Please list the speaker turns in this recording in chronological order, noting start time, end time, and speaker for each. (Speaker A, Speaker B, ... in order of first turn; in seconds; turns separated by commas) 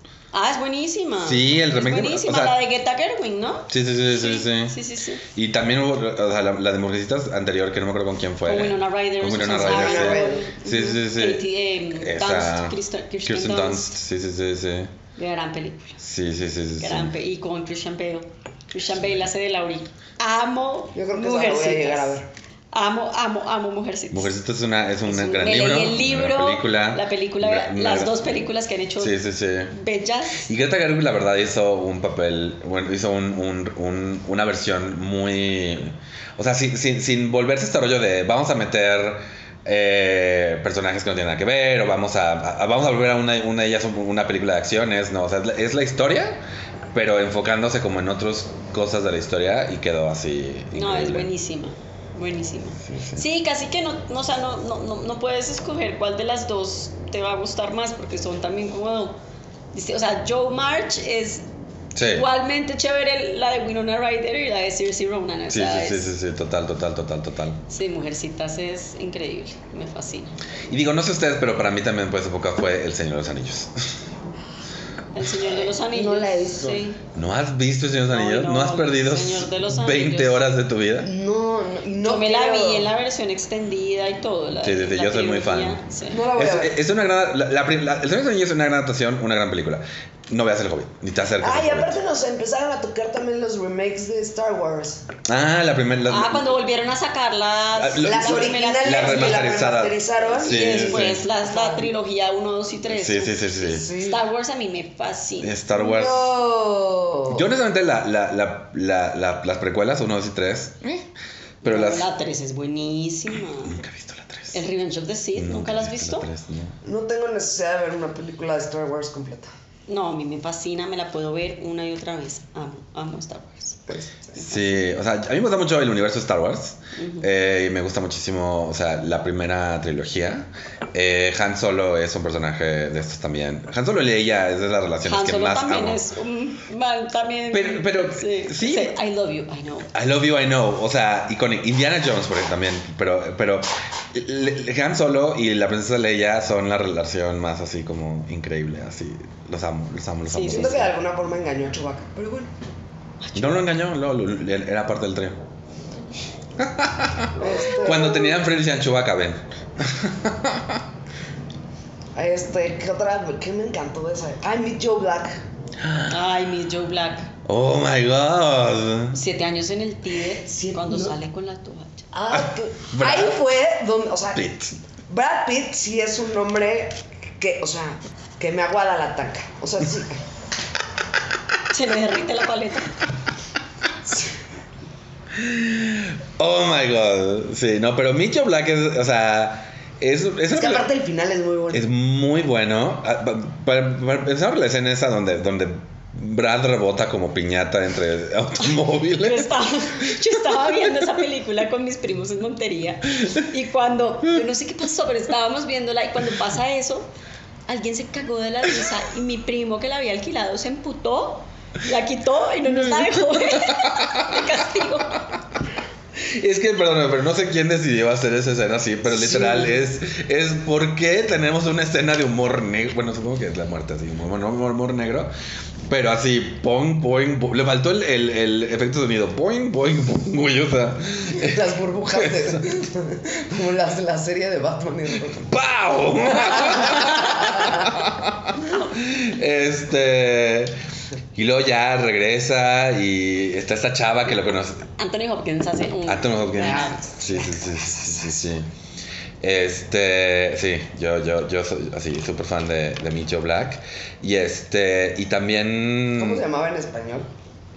Speaker A: 0.3-5.2, Speaker B: 1.2-2.6, Speaker B: 3.7-4.8, Speaker B: 5.3-14.9, Speaker A: 8.4-13.9, Speaker C: 9.5-10.5, Speaker A: 15.2-16.0, Speaker B: 16.0-17.1, Speaker A: 16.8-22.2, Speaker C: 20.9-22.3, Speaker A: 22.7-24.3, Speaker B: 24.1-28.3, Speaker A: 25.0-30.5, Speaker B: 29.0-29.7, Speaker B: 30.4-46.4, Speaker B: 46.9-51.3, Speaker A: 50.7-59.2, Speaker B: 52.8-53.2, Speaker A: 59.7-61.5, Speaker B: 61.9-62.3, Speaker A: 62.1-66.1, Speaker B: 65.5-67.6, Speaker A: 67.7-70.3, Speaker B: 70.7-73.9, Speaker A: 75.1-77.0, Speaker C: 75.7-76.8, Speaker B: 77.1-81.1, Speaker A: 78.1-80.4, Speaker C: 81.0-82.9, Speaker A: 82.0-86.2, Speaker B: 84.6-85.8, Speaker C: 86.1-86.8, Speaker B: 86.3-92.0, Speaker C: 91.4-95.0, Speaker B: 95.2-96.5, Speaker A: 96.1-99.5, Speaker B: 97.8-101.2, Speaker C: 98.0-101.9, Speaker A: 100.4-105.6, Speaker B: 102.9-103.9, Speaker C: 103.7-104.2, Speaker B: 105.4-106.3, Speaker C: 105.7-107.4, Speaker B: 107.3-111.1, Speaker B: 111.6-112.1, Speaker A: 111.6-113.8, Speaker B: 113.5-114.6, Speaker A: 114.5-116.3, Speaker B: 115.3-116.8, Speaker C: 116.8-119.5, Speaker A: 119.9-123.8, Speaker C: 123.9-124.4, Speaker B: 124.4-136.0, Speaker A: 127.0-127.3, Speaker A: 135.0-139.9, Speaker B: 137.5-138.9, Speaker B: 139.9-150.9, Speaker A: 150.3-150.8, Speaker C: 150.5-152.5, Speaker A: 153.2-153.7, Speaker B: 153.3-155.4, Speaker B: 156.6-160.8, Speaker A: 157.4-158.1, Speaker C: 157.4-158.4, Speaker C: 162.1-165.4, Speaker B: 165.8-166.2, Speaker A: 166.1-167.3, Speaker B: 167.4-169.2, Speaker A: 169.1-172.1, Speaker C: 170.4-171.1, Speaker C: 172.1-174.4, Speaker B: 172.3-173.4, Speaker B: 174.3-174.7, Speaker C: 175.1-180.2, Speaker A: 181.7-182.9, Speaker B: 185.3-190.9, Speaker C: 190.5-191.8, Speaker B: 191.7-200.8, Speaker A: 199.0-207.1, Speaker A: 207.7-215.2, Speaker B: 212.7-214.5, Speaker B: 216.2-225.3, Speaker C: 219.1-219.8, Speaker B: 225.9-232.7, Speaker C: 231.3-235.5, Speaker B: 235.5-240.8, Speaker C: 236.4-237.8, Speaker B: 241.3-244.8, Speaker A: 244.9-247.0, Speaker B: 246.1-248.7, Speaker C: 246.6-248.3, Speaker B: 249.4-256.4, Speaker C: 256.2-257.3